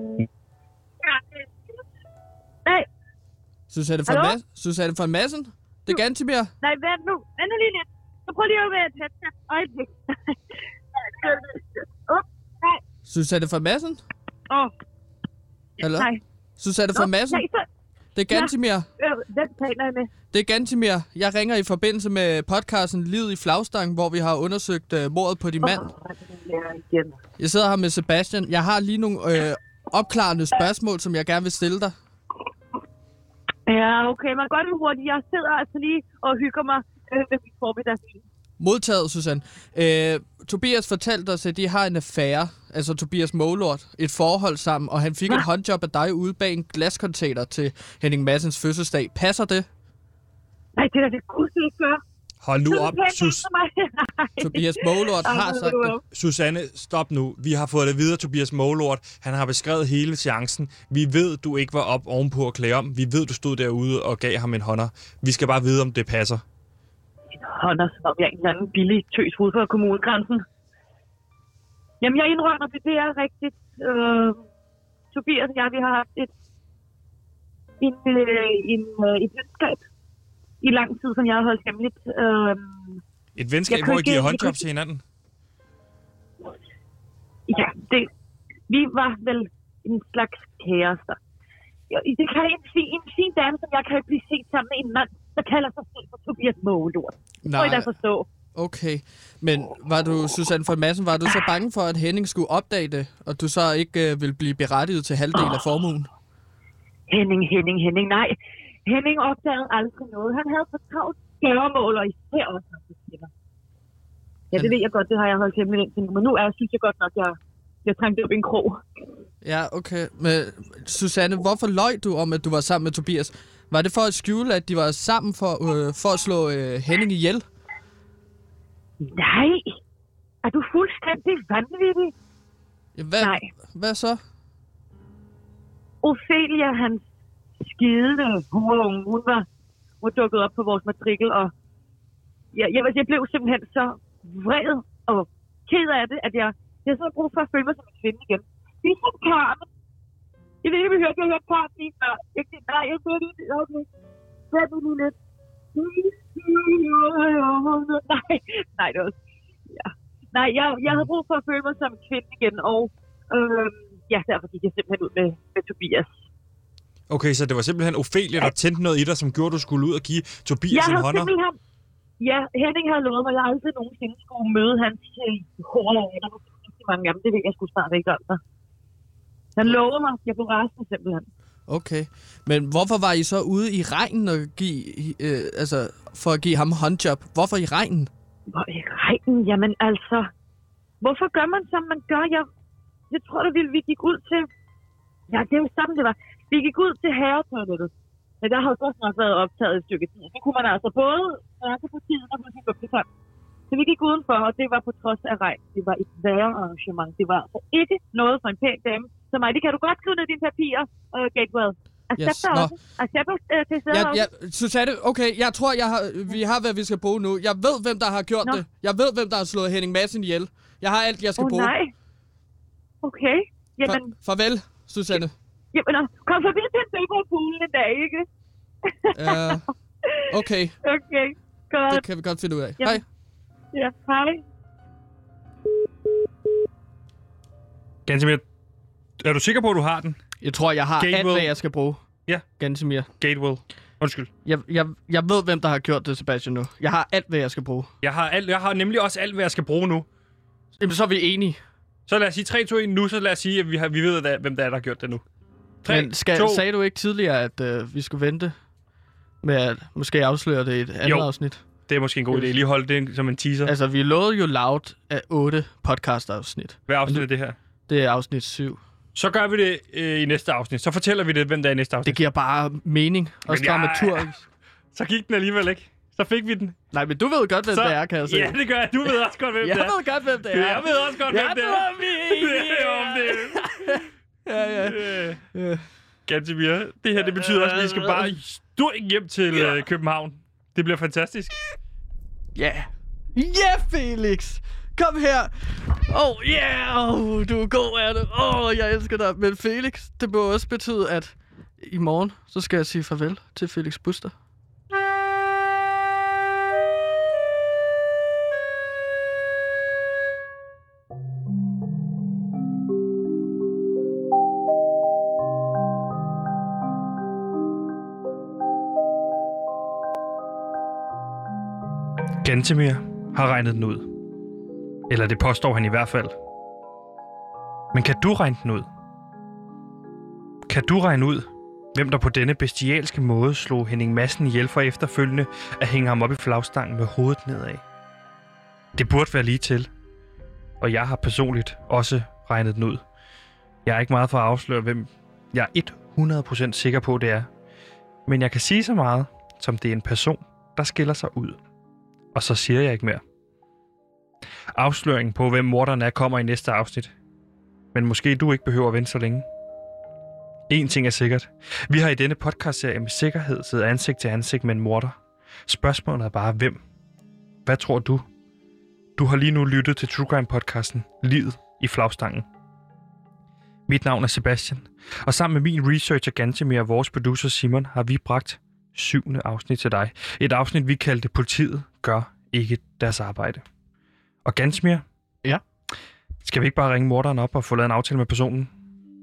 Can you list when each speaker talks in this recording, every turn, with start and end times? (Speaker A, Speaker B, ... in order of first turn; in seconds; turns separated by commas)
Speaker A: 1.0-1.5, Speaker B: 3.7-6.5, Speaker A: 4.1-4.4, Speaker A: 6.6-10.4, Speaker A: 10.9-12.8, Speaker B: 13.1-14.0, Speaker B: 15.8-17.4, Speaker A: 15.8-16.2, Speaker A: 16.9-17.7, Speaker B: 18.1-18.9, Speaker A: 18.3-20.1, Speaker B: 20.3-25.9, Speaker A: 25.6-27.2, Speaker B: 27.4-31.9, Speaker A: 33.7-38.2, Speaker B: 38.6-49.7, Speaker A: 50.8-52.0, Speaker C: 52.4-53.4, Speaker A: 52.7-56.0, Speaker B: 54.4-56.0, Speaker C: 56.1-66.4, Speaker A: 67.3-70.4, Speaker A: 72.0-74.4, Speaker A: 75.1-76.3, Speaker A: 77.8-79.8, Speaker A: 80.6-83.0, Speaker C: 83.4-85.0, Speaker A: 83.7-84.6, Speaker A: 87.5-88.1, Speaker A: 88.7-91.2, Speaker A: 91.9-98.3, Speaker B: 97.4-97.9, Speaker B: 98.5-106.1, Speaker A: 107.1-113.3, Speaker A: 114.5-118.8, Speaker B: 119.4-127.5, Speaker A: 129.0-129.8, Speaker A: 130.4-132.1, Speaker B: 133.0-134.2, Speaker A: 133.2-133.5, Speaker A: 136.0-137.0, Speaker A: 137.6-139.5, Speaker A: 140.0-141.5, Speaker A: 142.5-149.7, Speaker A: 150.6-153.9, Speaker A: 154.5-155.2, Speaker A: 155.8-159.2, Speaker A: 159.7-166.1, Speaker C: 167.1-171.3, Speaker A: 170.7-171.6, Speaker A: 172.2-178.4, Speaker A: 179.6-181.3, Speaker B: 181.7-188.1, Speaker A: 188.5-190.3, Speaker A: 191.0-192.5, Speaker A: 193.1-194.5, Speaker A: 195.3-203.1, Speaker A: 203.7-214.3, Speaker B: 212.2-212.8, Speaker B: 213.9-221.7, Speaker A: 221.4-221.9, Speaker A: 223.0-224.2, Speaker B: 223.8-225.3, Speaker A: 225.7-228.3, Speaker A: 228.9-230.3, Speaker B: 229.1-229.6, Speaker B: 230.3-230.8, Speaker A: 230.8-232.1, Speaker B: 231.9-233.0, Speaker A: 233.7-234.4, Speaker C: 238.1-238.4, Speaker C: 239.2-240.2, Speaker B: 240.4-242.0, Speaker C: 241.0-241.5, Speaker B: 242.6-243.1, Speaker C: 243.1-244.3, Speaker B: 244.4-247.9, Speaker C: 248.0-250.1, Speaker B: 250.8-251.6, Speaker C: 252.1-255.2, Speaker C: 255.8-256.6, Speaker B: 255.8-258.5, Speaker B: 259.4-261.6, Speaker C: 261.0-261.3, Speaker C: 261.9-263.7, Speaker B: 262.3-262.6, Speaker B: 263.6-267.3, Speaker C: 266.9-267.6, Speaker B: 267.9-268.8, Speaker C: 269.1-272.2, Speaker B: 272.0-274.4, Speaker C: 273.5-274.4, Speaker C: 274.9-276.8, Speaker B: 276.9-278.6, Speaker C: 277.7-284.0, Speaker B: 279.6-285.8, Speaker C: 284.6-285.4, Speaker C: 286.3-291.6, Speaker B: 287.2-288.3, Speaker B: 289.5-289.8, Speaker B: 292.6-304.3, Speaker C: 322.4-324.1, Speaker C: 325.1-326.3, Speaker C: 327.9-328.9, Speaker C: 330.7-337.8, Speaker C: 338.9-339.9, Speaker C: 340.8-343.0, Speaker C: 343.9-347.5, Speaker C: 348.3-351.6, Speaker C: 352.3-353.2, Speaker C: 354.8-357.1, Speaker C: 357.9-359.4, Speaker C: 360.7-365.1, Speaker C: 365.7-366.8, Speaker C: 367.7-368.2, Speaker C: 369.2-372.4, Speaker C: 373.9-383.6, Speaker C: 384.4-385.0, Speaker C: 386.4-388.7